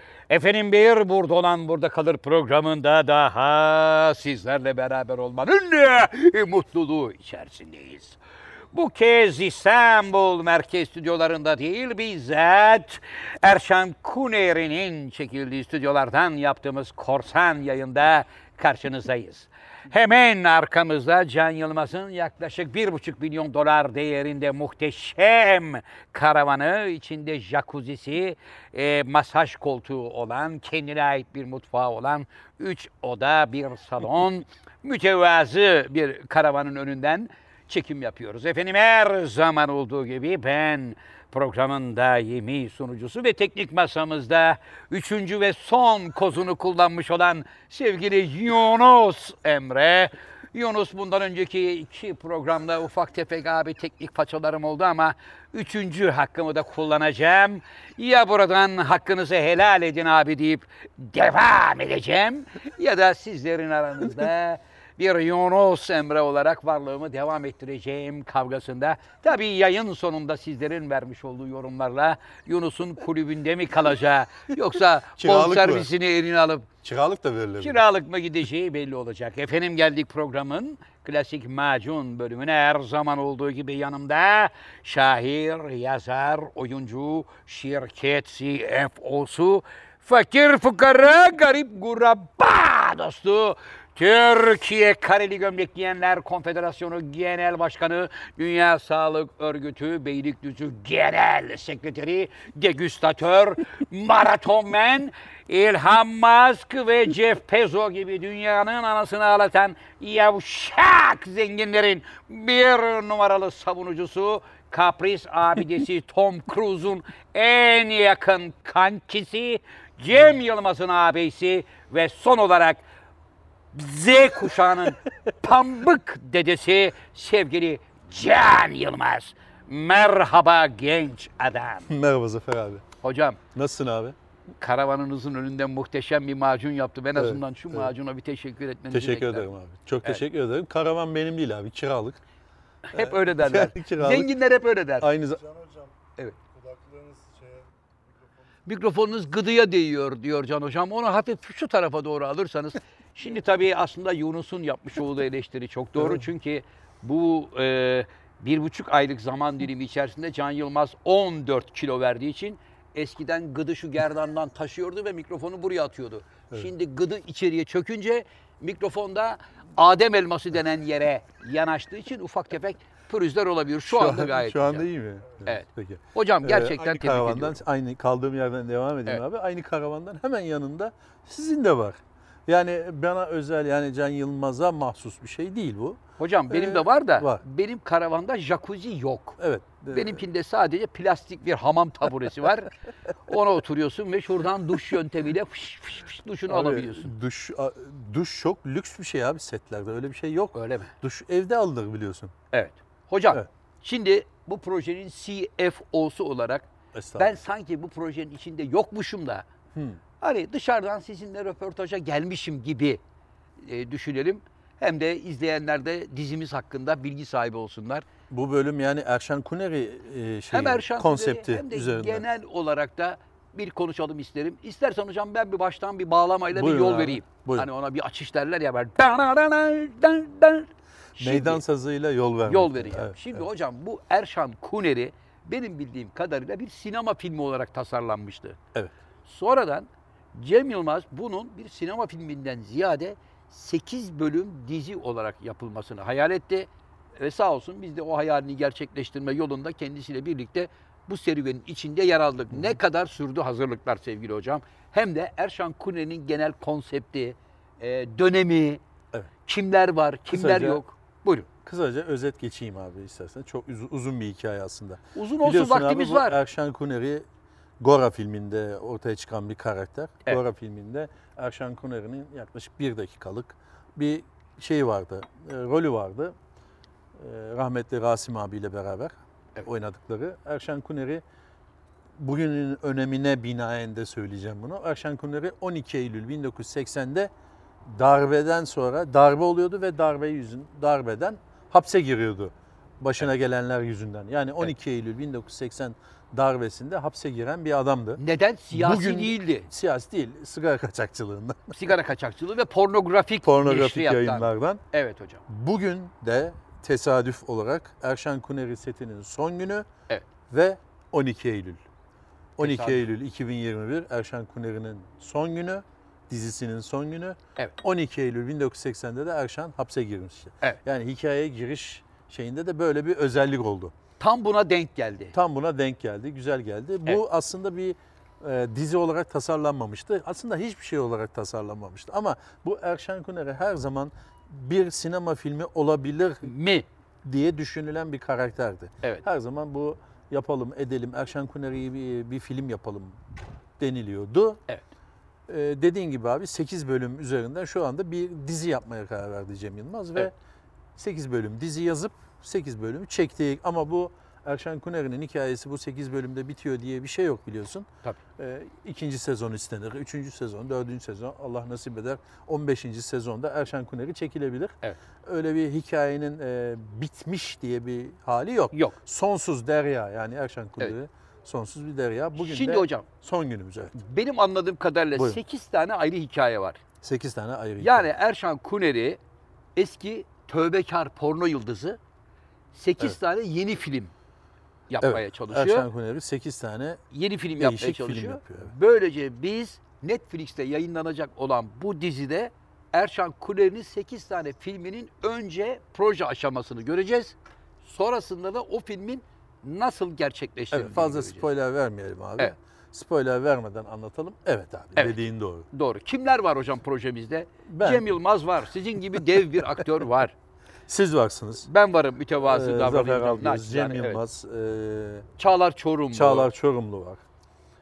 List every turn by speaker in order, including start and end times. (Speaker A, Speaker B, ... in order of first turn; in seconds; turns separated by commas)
Speaker A: 0.3-8.2, Speaker A: 8.7-76.7, Speaker B: 75.2-75.9, Speaker B: 76.8-77.8, Speaker A: 77.6-122.8, Speaker A: 123.7-131.9, Speaker B: 131.9-132.8, Speaker A: 133.0-133.4, Speaker B: 133.5-134.1, Speaker A: 134.6-139.5, Speaker B: 137.2-137.9, Speaker B: 138.9-142.2, Speaker A: 142.8-145.1, Speaker B: 142.9-144.3, Speaker B: 145.0-145.4, Speaker C: 145.3-145.9, Speaker C: 146.5-148.2, Speaker A: 148.7-174.9, Speaker B: 173.9-186.0, Speaker A: 175.4-177.6, Speaker A: 186.2-189.4, Speaker B: 186.5-187.4, Speaker B: 189.4-190.2, Speaker A: 189.9-192.7, Speaker A: 193.2-197.1, Speaker B: 196.5-202.3, Speaker A: 200.5-200.9, Speaker A: 202.5-209.5, Speaker B: 206.9-207.4, Speaker B: 209.7-210.0, Speaker A: 210.2-213.0, Speaker A: 213.6-218.1, Speaker B: 218.3-222.2, Speaker A: 220.5-231.6, Speaker B: 226.5-227.7, Speaker B: 231.2-233.4, Speaker A: 232.4-238.6, Speaker A: 239.2-258.8, Speaker A: 259.4-261.5, Speaker B: 260.3-260.8, Speaker B: 261.6-267.3, Speaker A: 265.1-266.4, Speaker B: 267.8-276.3, Speaker B: 277.1-281.2, Speaker B: 282.2-287.3, Speaker B: 287.8-298.2, Speaker A: 298.2-299.7, Speaker B: 298.7-301.8, Speaker A: 301.7-305.4, Speaker B: 303.4-304.8, Speaker B: 305.5-309.9, Speaker B: 310.5-311.8, Speaker B: 312.6-323.9, Speaker A: 312.6-313.0, Speaker A: 324.2-325.3, Speaker B: 325.3-336.5, Speaker A: 336.4-336.9, Speaker B: 337.2-343.2, Speaker B: 343.8-344.6, Speaker B: 345.5-350.3, Speaker B: 350.9-373.9, Speaker A: 368.7-369.0, Speaker A: 372.4-373.1, Speaker A: 373.9-376.8, Speaker B: 375.1-375.4, Speaker B: 377.0-378.1, Speaker A: 377.8-379.2, Speaker A: 379.8-382.0, Speaker A: 382.7-384.1, Speaker A: 384.9-385.9, Speaker B: 385.0-387.0, Speaker A: 387.1-401.5, Speaker B: 387.6-388.7, Speaker B: 400.7-405.7, Speaker A: 404.9-410.3, Speaker B: 407.7-408.0, Speaker B: 409.1-409.9, Speaker B: 410.9-411.7, Speaker A: 411.6-414.2, Speaker B: 412.4-415.3, Speaker A: 415.4-416.5, Speaker B: 416.1-417.2